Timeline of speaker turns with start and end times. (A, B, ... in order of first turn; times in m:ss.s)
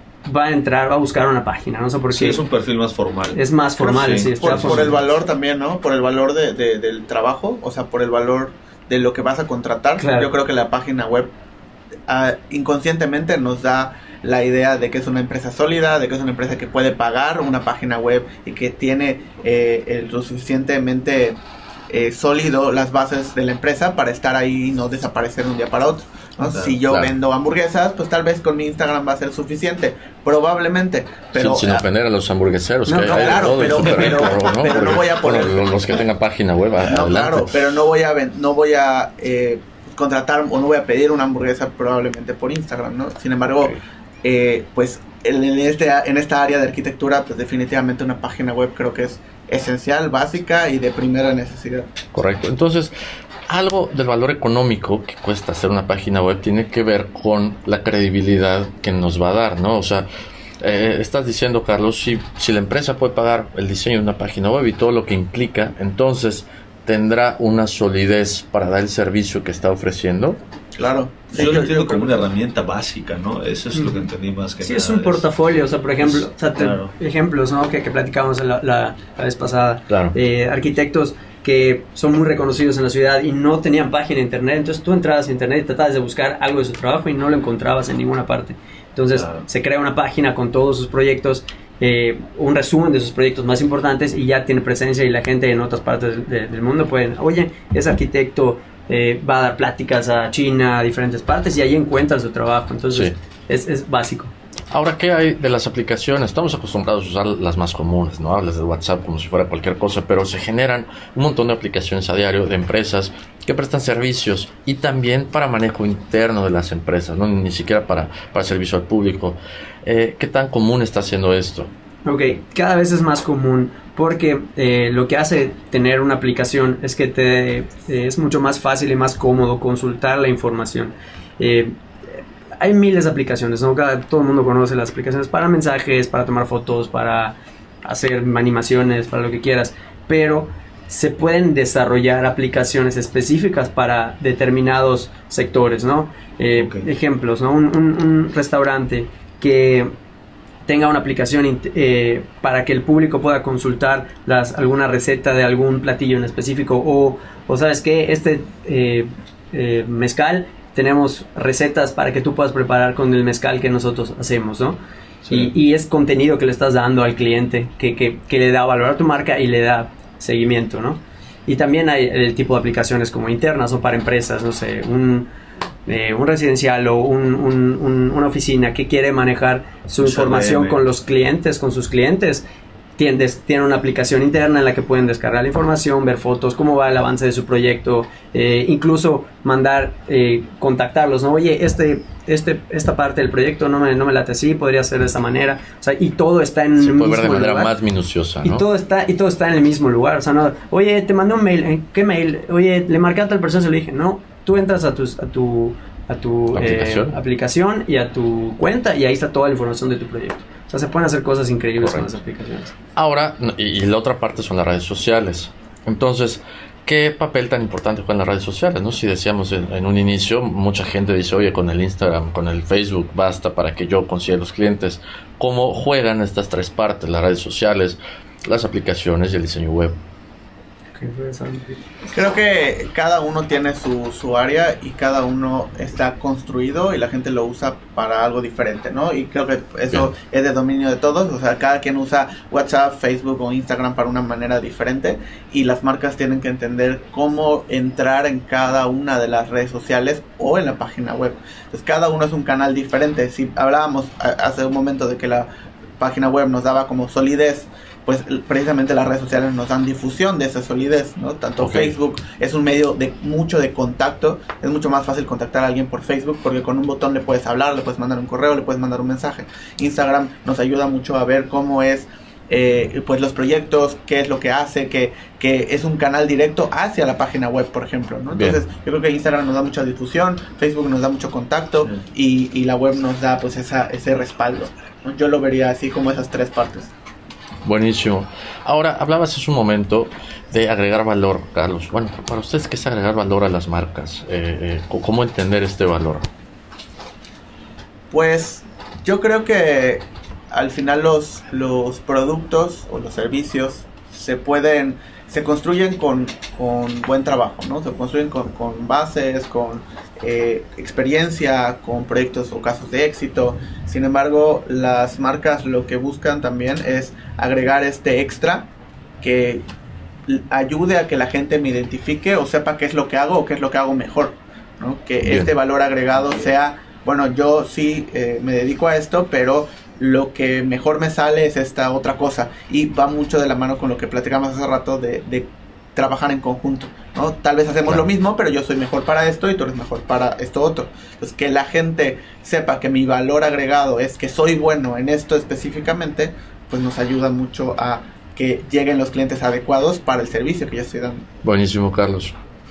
0:00.2-0:02.4 A
0:02.1-0:05.0 B
0:03.3-0:04.9 A
0:03.9-0:11.3 C
0:10.0-0:10.3 A
0:12.1-0:21.4 C
0:21.9-0:31.8 C
0:26.4-0:26.8 B
0:26.9-0:27.1 D
0:31.4-0:37.5 D
0:32.9-0:33.8 A
0:32.9-0:36.0 C
0:36.8-0:51.9 C
0:52.1-0:52.9 D
0:53.5-1:00.1 D
1:00.6-1:10.4 D
1:10.8-1:15.3 B
1:10.8-1:12.3 C
1:14.6-1:44.3 A
1:16.0-1:16.9 B
1:19.9-1:20.1 D
1:29.1-1:29.4 B
1:44.7-2:01.7 D
2:02.0-2:11.7 A
2:12.6-2:29.9 A
2:26.5-2:26.9 B
2:30.6-2:44.8 A
2:45.2-2:45.5 B
2:45.3-2:55.3 A
2:55.8-3:02.4 A
3:00.0-3:00.8 B
3:03.0-3:17.7 A
3:16.8-3:18.6 D
3:18.4-3:32.7 A
3:26.5-3:27.2 D
3:31.8-3:32.1 D
3:33.0-3:50.0 D
3:51.0-3:51.8 A
3:52.1-4:15.5 C
4:16.0-4:46.9 C
4:21.6-4:21.9 D
4:38.3-4:38.6 D
4:47.6-4:56.2 D
4:58.1-5:18.7 C
5:19.2-5:19.6 C
5:20.2-5:51.2 C
5:51.4-5:52.3 D